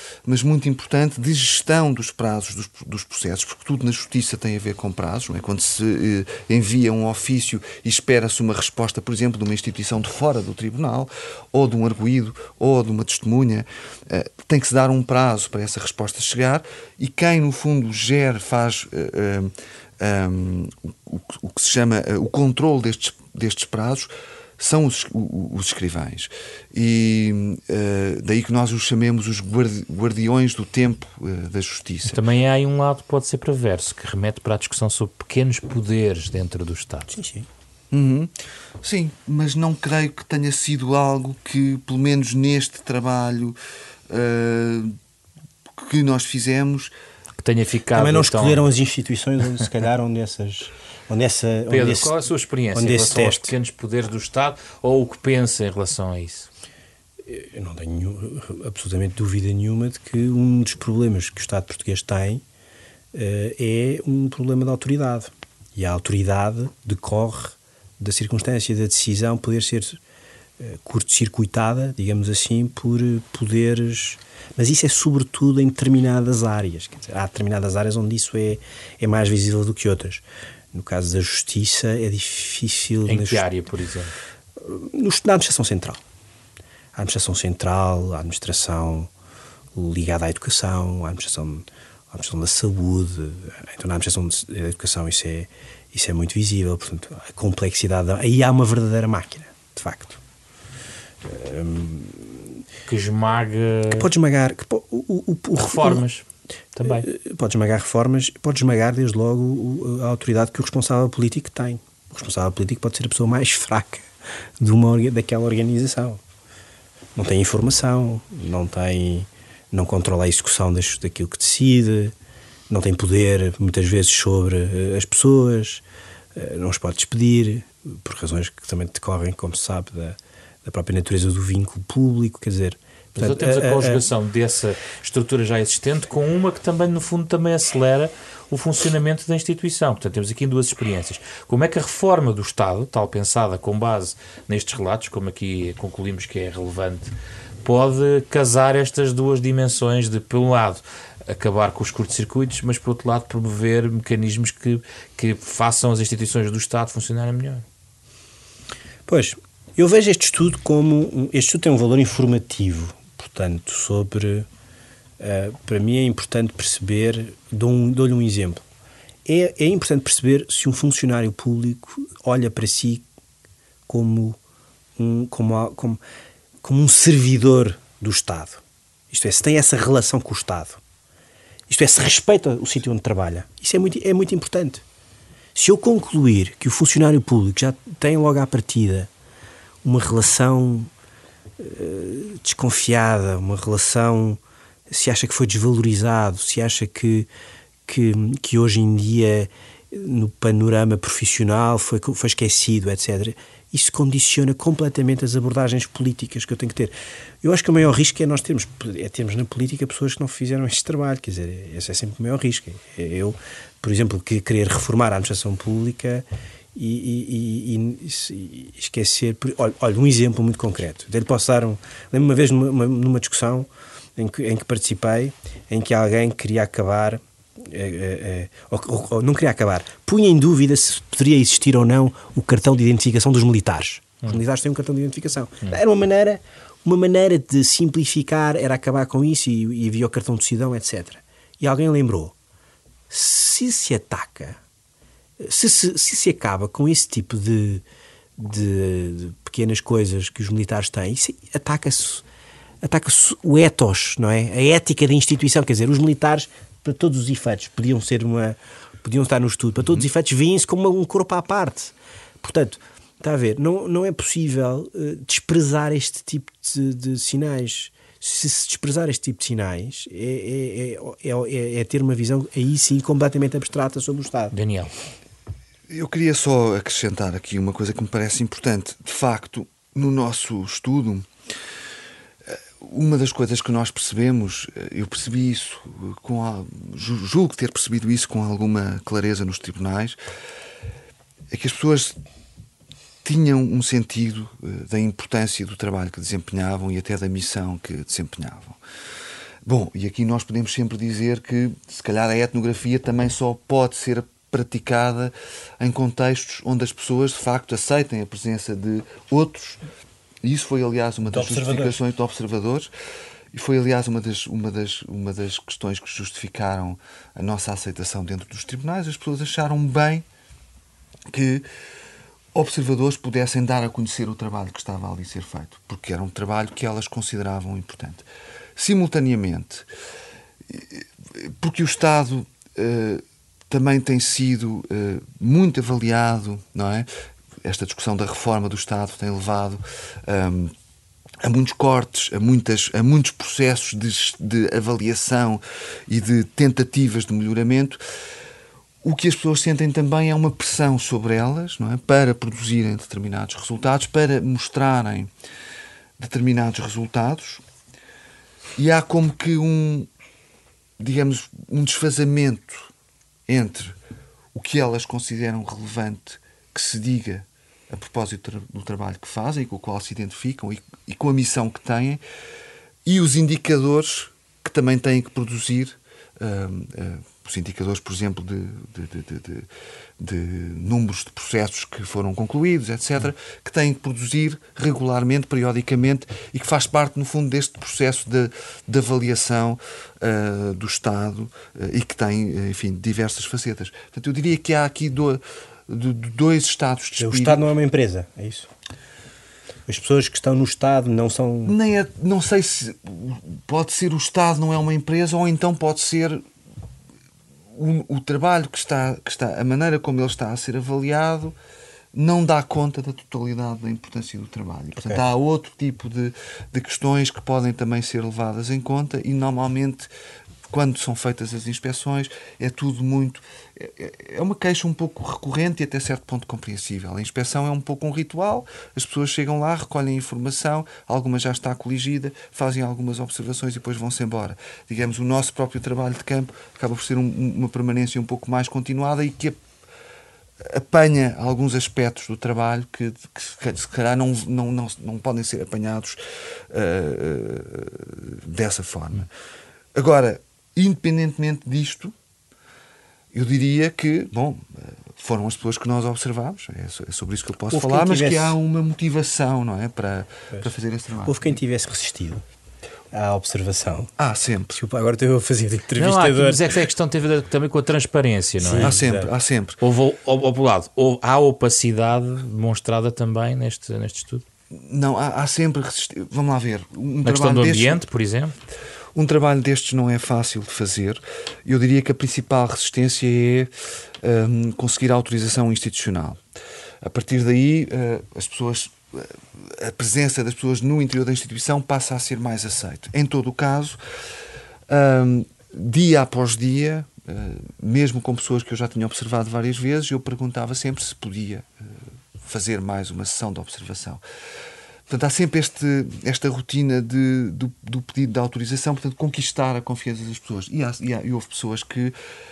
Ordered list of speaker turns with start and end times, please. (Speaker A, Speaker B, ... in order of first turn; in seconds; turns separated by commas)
Speaker A: 0.2-32.2, Speaker B: 32.0-37.1, Speaker C: 37.1-37.5, Speaker A: 37.9-43.6, Speaker A: 44.1-45.0, Speaker A: 45.8-46.9, Speaker B: 47.4-48.6, Speaker C: 47.9-52.2, Speaker B: 51.7-56.5, Speaker C: 52.7-53.5, Speaker C: 57.2-62.4, Speaker C: 63.1-70.0, Speaker C: 70.6-83.5, Speaker B: 83.0-84.1, Speaker C: 84.6-86.0, Speaker C: 86.9-89.1, Speaker C: 89.7-100.2, Speaker C: 101.2-102.6, Speaker B: 102.9-104.1, Speaker C: 103.9-106.0, Speaker B: 105.5-107.1, Speaker C: 106.8-114.1, Speaker C: 114.6-116.2, Speaker C: 117.1-122.1, Speaker C: 122.7-125.8, Speaker C: 126.3-134.0, Speaker B: 133.2-157.6, Speaker C: 159.1-164.5, Speaker C: 165.2-168.6, Speaker C: 169.2-173.0, Speaker C: 173.9-174.4, Speaker C: 175.0-176.0, Speaker C: 176.6-180.8, Speaker C: 181.7-184.8, Speaker C: 185.5-189.1, Speaker C: 189.8-190.9, Speaker C: 191.6-197.3, Speaker C: 197.8-242.3, Speaker C: 243.1-244.6, Speaker C: 245.4-247.8, Speaker C: 248.4-252.2, Speaker C: 252.8-274.5, Speaker B: 274.5-274.9, Speaker A: 275.9-281.3, Speaker A: 282.5-290.2, Speaker A: 291.5-292.2, Speaker A: 293.2-298.8, Speaker A: 299.6-309.8, Speaker A: 310.4-312.9, Speaker C: 311.2-312.0, Speaker A: 313.5-320.2, Speaker A: 321.3-321.7, Speaker A: 322.5-329.9, Speaker A: 330.7-337.1, Speaker A: 337.6-340.7, Speaker A: 341.4-348.0, Speaker A: 349.0-355.3, Speaker A: 356.2-357.6, Speaker A: 358.8-360.1, Speaker A: 361.0-362.9, Speaker A: 363.5-364.0, Speaker A: 364.5-372.2, Speaker A: 373.0-379.7, Speaker A: 380.2-397.6, Speaker C: 397.2-398.7, Speaker C: 399.9-401.8, Speaker A: 401.6-406.4, Speaker A: 407.7-411.5, Speaker A: 412.1-420.1, Speaker C: 414.9-415.2, Speaker A: 420.7-439.6, Speaker A: 440.6-449.3, Speaker A: 449.9-452.1, Speaker A: 453.3-461.5, Speaker C: 457.7-458.6, Speaker C: 461.2-462.4, Speaker C: 463.1-464.1, Speaker A: 464.2-464.8, Speaker C: 464.7-466.7, Speaker B: 465.9-468.9, Speaker C: 468.6-469.3, Speaker A: 468.8-469.8, Speaker B: 469.8-474.4, Speaker A: 474.7-478.0, Speaker B: 477.2-478.5, Speaker A: 479.1-483.7, Speaker A: 484.2-486.4, Speaker A: 487.0-494.0, Speaker A: 494.9-504.2, Speaker A: 505.1-512.1